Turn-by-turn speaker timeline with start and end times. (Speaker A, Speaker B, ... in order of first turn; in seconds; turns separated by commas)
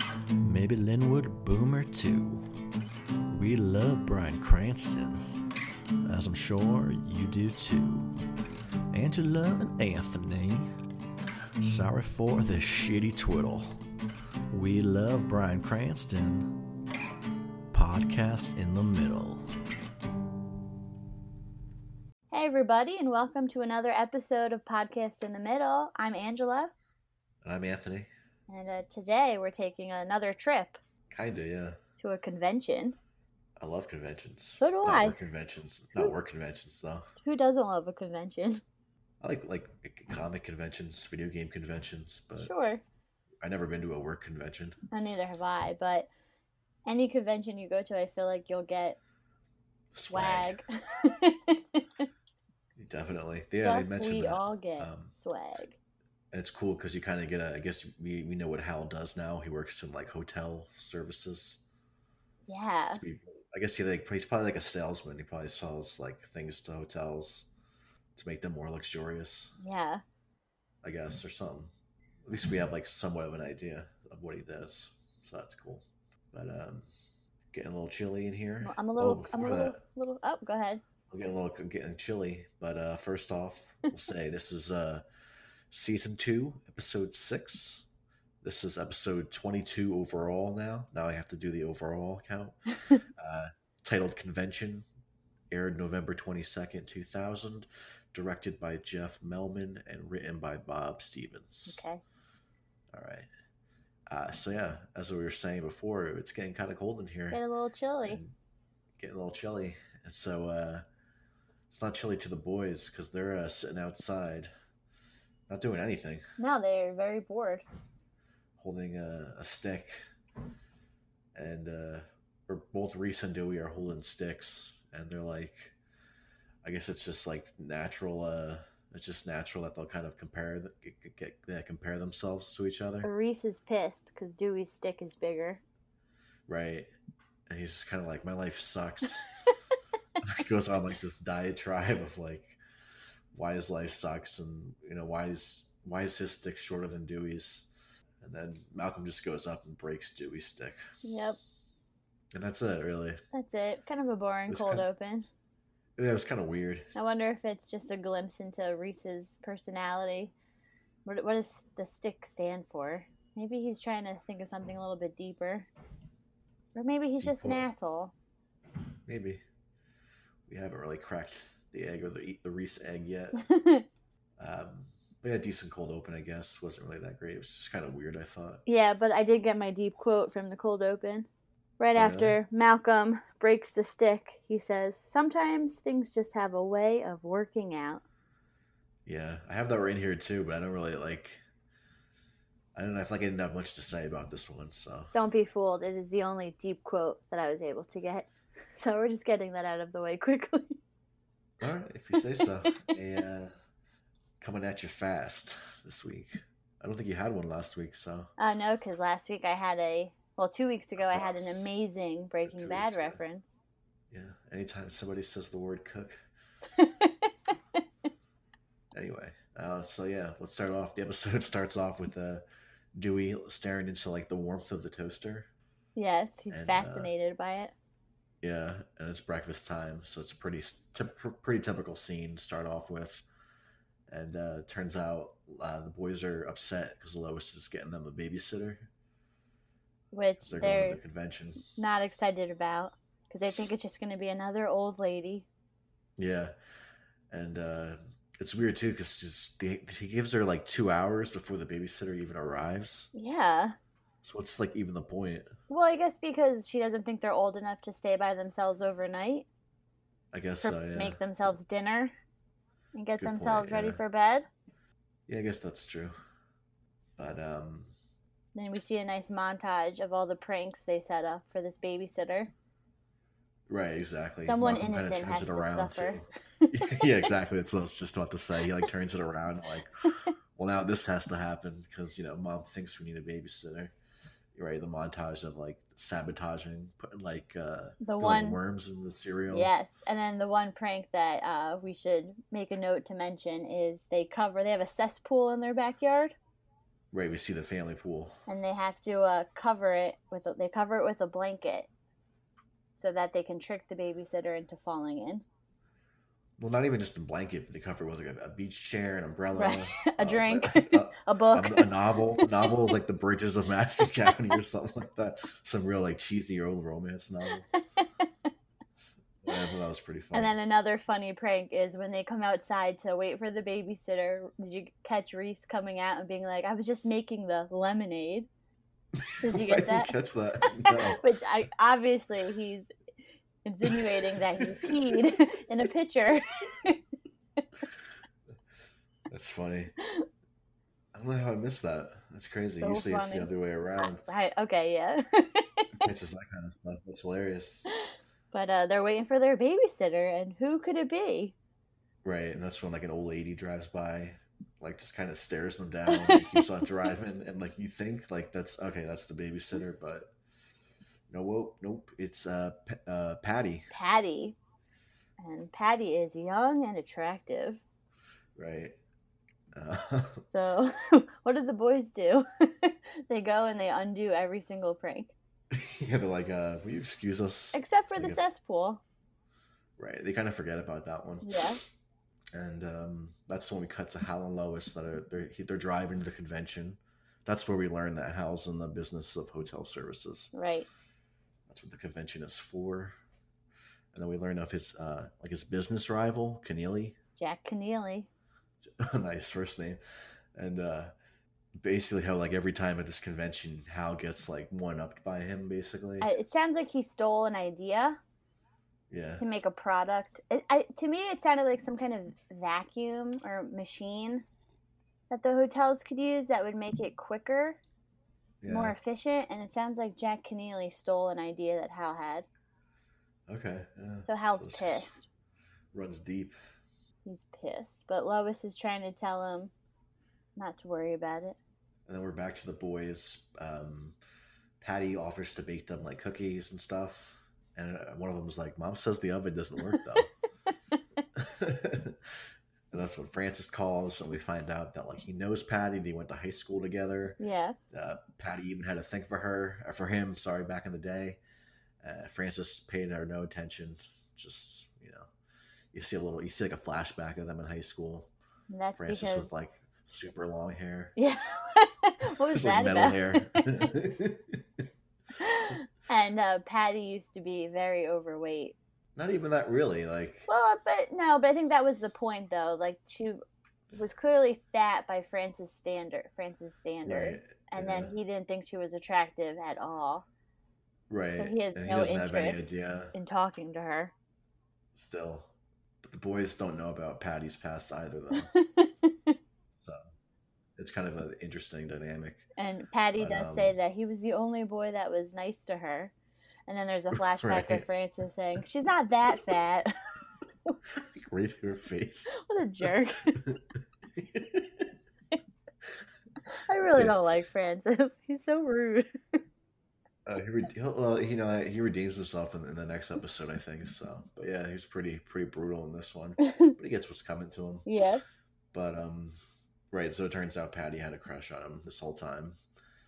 Speaker A: 0.4-2.4, Speaker A: 3.3-5.2, Speaker A: 6.0-8.1, Speaker A: 8.9-10.7, Speaker A: 11.6-13.8, Speaker A: 14.5-16.6, Speaker A: 17.7-19.5, Speaker B: 22.3-26.7, Speaker A: 27.4-28.1, Speaker B: 28.5-30.8, Speaker A: 31.1-31.8, Speaker B: 32.0-33.0, Speaker A: 33.6-37.0, Speaker B: 34.6-35.2, Speaker B: 37.2-38.6, Speaker A: 39.2-42.5, Speaker B: 42.4-42.8, Speaker A: 43.4-44.8, Speaker B: 44.9-46.1, Speaker B: 46.9-49.0, Speaker A: 49.9-50.6, Speaker B: 50.1-52.0, Speaker A: 52.8-55.1, Speaker B: 53.6-55.8, Speaker A: 56.3-61.6, Speaker B: 62.5-63.0, Speaker A: 62.9-67.5, Speaker A: 68.2-69.5, Speaker B: 69.6-70.0, Speaker A: 70.8-71.7, Speaker A: 72.2-76.9, Speaker A: 77.5-79.8, Speaker B: 78.6-80.8, Speaker A: 81.1-85.0, Speaker A: 85.7-87.8, Speaker A: 88.4-94.8, Speaker A: 95.5-101.8, Speaker B: 101.7-102.0, Speaker A: 102.9-103.3, Speaker A: 104.1-107.4, Speaker B: 107.3-108.2, Speaker A: 108.0-108.3, Speaker A: 109.0-110.8, Speaker A: 111.7-114.5, Speaker A: 115.5-116.2, Speaker B: 116.4-117.6, Speaker A: 118.6-119.9, Speaker A: 121.3-125.7, Speaker A: 126.6-133.1, Speaker B: 133.0-135.6, Speaker A: 136.5-136.9, Speaker A: 137.5-139.3, Speaker A: 140.2-142.6, Speaker A: 143.3-147.7, Speaker A: 148.2-150.8, Speaker B: 151.0-151.4, Speaker A: 152.3-153.2, Speaker B: 153.3-155.3, Speaker A: 154.5-154.8, Speaker A: 156.0-156.9, Speaker B: 156.9-160.3, Speaker B: 161.0-165.7, Speaker B: 166.7-168.1, Speaker A: 167.2-167.7, Speaker A: 169.1-169.4, Speaker A: 170.5-173.4, Speaker B: 173.4-173.8, Speaker A: 174.4-178.6, Speaker B: 178.7-181.3, Speaker B: 181.8-188.0, Speaker A: 181.9-182.4, Speaker A: 189.1-191.4, Speaker A: 192.7-195.1, Speaker B: 195.1-200.8, Speaker A: 201.6-203.5, Speaker B: 202.2-202.9, Speaker A: 204.4-208.3, Speaker B: 208.4-213.4, Speaker A: 211.0-211.7, Speaker A: 212.5-213.2, Speaker A: 214.1-216.1, Speaker B: 216.7-217.3, Speaker A: 218.9-222.4, Speaker A: 223.0-225.5, Speaker B: 225.9-227.7, Speaker A: 226.5-227.1, Speaker A: 228.4-233.2, Speaker A: 234.1-238.9, Speaker B: 240.1-241.0, Speaker A: 240.4-241.6, Speaker B: 241.8-245.5, Speaker A: 246.2-246.5, Speaker A: 247.3-253.1, Speaker B: 253.1-253.7, Speaker A: 254.2-255.5, Speaker B: 255.7-259.4, Speaker A: 260.3-261.2, Speaker B: 260.6-262.1, Speaker B: 262.9-264.4, Speaker A: 263.2-264.0, Speaker A: 265.3-266.1, Speaker A: 267.2-267.9, Speaker B: 268.5-272.5, Speaker A: 273.7-280.0, Speaker B: 274.4-277.3, Speaker A: 280.6-283.9, Speaker A: 284.5-289.7, Speaker B: 288.0-288.6, Speaker B: 289.5-296.3, Speaker A: 297.1-298.3, Speaker B: 298.5-301.9, Speaker B: 302.9-305.4, Speaker A: 306.6-317.7, Speaker B: 309.5-312.7, Speaker B: 317.7-318.1, Speaker A: 319.4-320.5, Speaker B: 320.3-328.5, Speaker A: 329.2-331.2, Speaker B: 329.4-330.1, Speaker B: 330.9-332.9, Speaker B: 333.6-337.0, Speaker A: 334.6-334.9, Speaker A: 339.3-339.9, Speaker B: 340.0-340.2, Speaker A: 341.1-344.2, Speaker B: 342.8-346.0, Speaker A: 346.0-347.9, Speaker B: 348.5-351.5, Speaker A: 352.2-360.3, Speaker B: 356.1-356.6, Speaker A: 361.3-363.9, Speaker B: 363.9-364.6, Speaker B: 365.4-367.8, Speaker A: 368.6-369.0, Speaker A: 369.8-370.4, Speaker B: 370.5-375.3, Speaker A: 375.7-378.4, Speaker B: 377.7-379.0, Speaker A: 380.0-381.7, Speaker B: 381.4-381.8, Speaker A: 382.5-390.5, Speaker B: 390.5-390.9, Speaker A: 391.7-393.1, Speaker A: 394.1-397.1, Speaker B: 397.4-398.3, Speaker A: 398.8-400.0, Speaker A: 400.6-401.1, Speaker A: 401.8-406.3, Speaker B: 406.2-408.2, Speaker A: 409.1-409.4, Speaker B: 409.4-414.4, Speaker B: 415.3-417.8, Speaker A: 418.6-419.0, Speaker B: 418.6-422.4, Speaker A: 423.5-425.1, Speaker B: 424.2-425.2, Speaker A: 425.9-426.5, Speaker B: 427.2-429.7, Speaker B: 430.6-431.6, Speaker A: 432.1-434.1, Speaker A: 434.8-440.3, Speaker A: 441.3-442.2, Speaker A: 442.9-447.4, Speaker B: 447.4-447.8, Speaker A: 447.9-451.4, Speaker A: 452.0-455.3, Speaker A: 455.9-458.3, Speaker B: 458.7-459.5, Speaker A: 458.9-461.1, Speaker B: 461.1-463.9, Speaker A: 462.5-464.6, Speaker B: 465.4-468.8, Speaker A: 469.1-470.5, Speaker B: 470.5-473.4, Speaker B: 473.9-480.2, Speaker A: 477.0-478.1, Speaker A: 481.1-483.1, Speaker B: 481.4-484.1, Speaker A: 484.9-485.5, Speaker A: 486.0-488.5, Speaker B: 488.5-489.4, Speaker A: 490.8-492.4, Speaker B: 492.6-496.1, Speaker A: 493.1-493.8, Speaker B: 496.7-499.9, Speaker A: 497.4-497.8, Speaker A: 500.9-502.4, Speaker B: 502.3-503.4, Speaker A: 504.1-504.9, Speaker B: 506.4-509.1, Speaker A: 510.2-517.9, Speaker B: 516.4-516.7, Speaker B: 517.8-518.2, Speaker A: 518.7-519.4, Speaker A: 519.9-522.5